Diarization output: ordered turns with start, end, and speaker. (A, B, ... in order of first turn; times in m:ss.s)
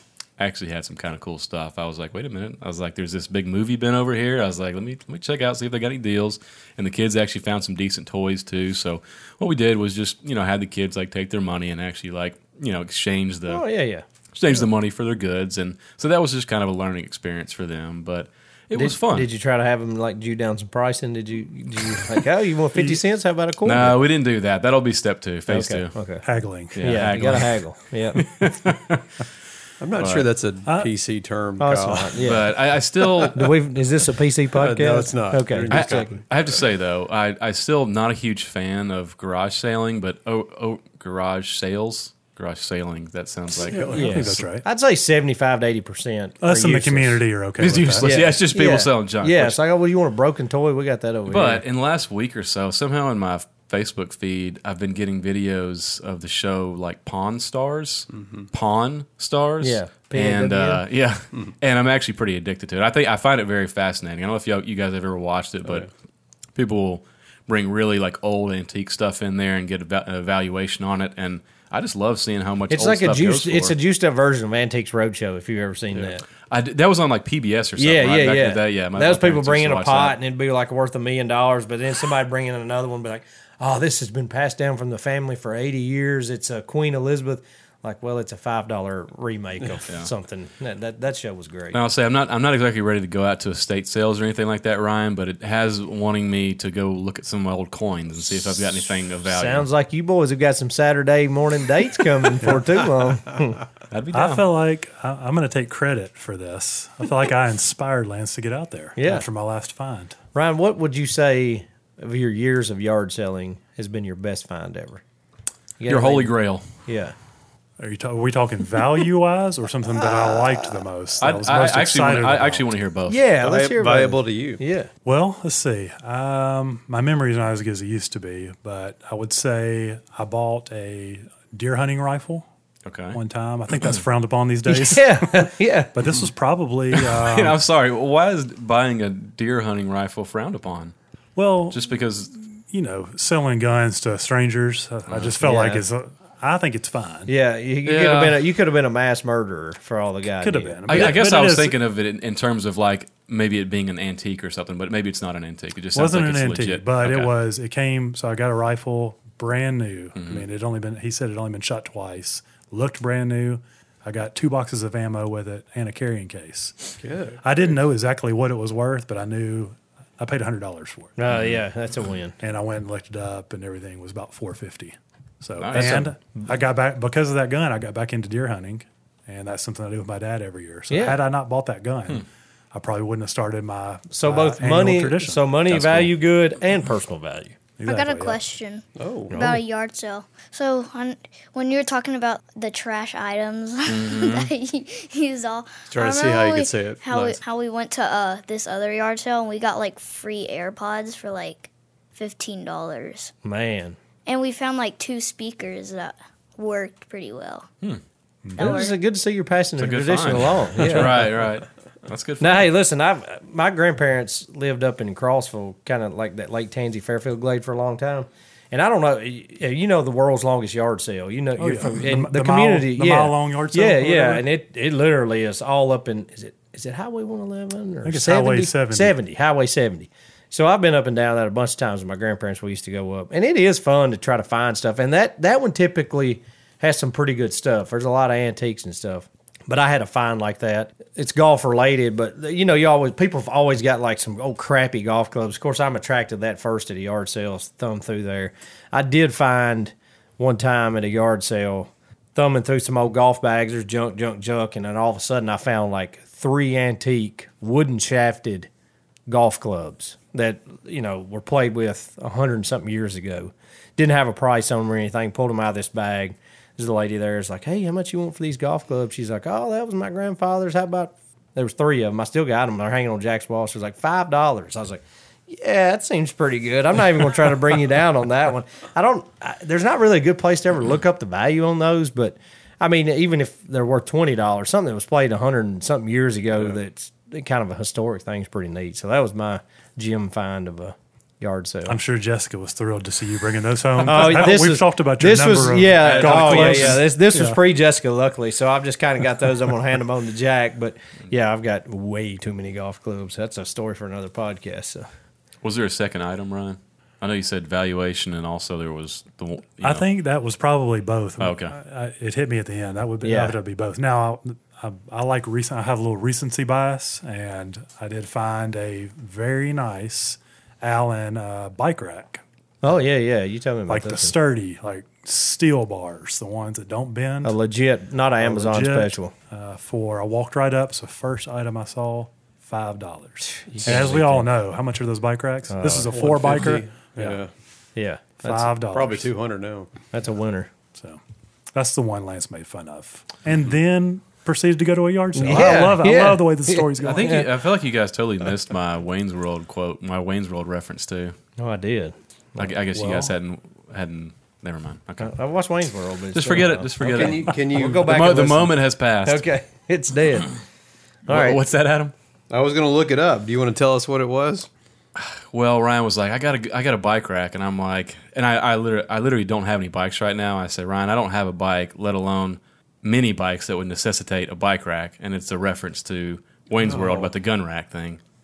0:00.4-0:13.6 A
0:13.5-0:14.0 B
0:14.4-0:19.3 A
0:18.7-0:24.0 B
0:23.6-0:25.9 A
0:25.5-0:26.2 B
0:26.2-0:27.4 C
0:26.8-0:27.6 A
0:26.8-0:28.2 B
0:28.2-0:29.0 A
0:29.8-0:32.2 D
0:30.0-0:30.3 A
0:30.6-0:30.9 C
0:31.6-0:32.6 B
0:32.2-0:33.5 A
0:33.3-0:36.2 B
0:34.6-0:36.6 D
0:35.7-0:43.9 A
0:43.6-0:44.6 C
0:43.9-0:47.2 B
0:46.4-0:48.2 C
0:47.6-0:49.6 A
0:48.0-0:51.6 B
0:51.3-1:05.9 A
0:58.1-0:58.5 D
0:59.6-1:00.8 B
1:06.6-1:13.8 A
1:12.7-1:16.2 B
1:16.3-1:20.2 A
1:17.8-1:31.8 B
1:31.7-1:39.7 A
1:39.3-1:43.6 B
1:43.9-1:44.5 A
1:44.1-1:50.2 C
1:49.0-1:49.3 B
1:50.3-1:55.0 B
1:55.8-1:57.2 B
1:55.9-1:56.7 A
1:57.8-2:02.7 C
2:00.0-2:00.8 B
2:01.2-2:03.2 A
2:03.1-2:04.9 B
2:03.4-2:04.6 D
2:05.0-2:12.5 C
2:12.9-2:13.2 A
2:13.1-2:17.6 C
2:14.7-2:15.9 B
2:16.9-2:20.9 A
2:21.4-2:21.8 C
2:21.7-2:22.3 A
2:22.5-2:27.3 C
2:25.4-2:25.8 B
2:27.3-2:31.2 B
2:27.8-2:28.4 A
2:30.4-2:31.8 C
2:30.9-2:37.3 A
2:36.0-2:51.2 C
2:40.2-2:40.4 A
2:47.0-2:47.5 D
2:51.2-2:52.4 B
2:52.4-3:05.5 C
2:55.6-2:56.1 A
2:55.7-2:56.1 B
3:00.9-3:01.2 B
3:04.1-3:07.6 B
3:05.7-3:06.1 A
3:07.8-3:08.4 C
3:07.8-3:23.3 E
3:09.0-3:09.4 D
3:09.3-3:09.6 B
3:13.9-3:14.5 A
3:15.9-3:17.4 D
3:23.4-3:24.0 B
3:24.3-3:27.7 E
3:28.5-3:28.7 C
3:28.6-3:29.0 E
3:28.6-3:31.3 B
3:29.8-3:32.7 A
3:32.4-4:18.7 B
3:41.6-3:44.4 C
3:48.0-3:49.2 C
4:19.3-4:52.0 B
4:51.9-4:57.6 C
4:54.0-5:05.1 B
4:56.0-4:57.0 A
5:05.6-5:10.1 A
5:09.8-5:22.4 C
5:11.4-5:11.8 A
5:13.2-5:13.6 B
5:22.8-5:24.4 B
5:23.9-5:27.6 C
5:27.4-5:29.3 B
5:28.4-5:37.4 C
5:33.7-5:34.5 B
5:35.7-5:36.2 B
5:36.1-5:37.5 D
5:38.0-5:38.7 B
5:38.4-5:39.3 C
5:38.9-5:39.9 D
5:40.1-5:40.7 B
5:41.0-5:41.2 C
5:41.7-5:47.5 C
5:45.4-5:47.5 B
5:47.0-5:51.4 A
5:51.6-5:52.7 B
5:52.6-5:55.3 A
5:52.9-5:53.3 C
5:55.2-6:00.5 B
5:56.3-5:59.4 A
5:57.0-5:58.3 D
6:01.3-6:01.6 B
6:01.3-6:02.1 A
6:02.5-6:04.7 D
6:05.2-6:18.2 A
6:16.8-6:17.3 D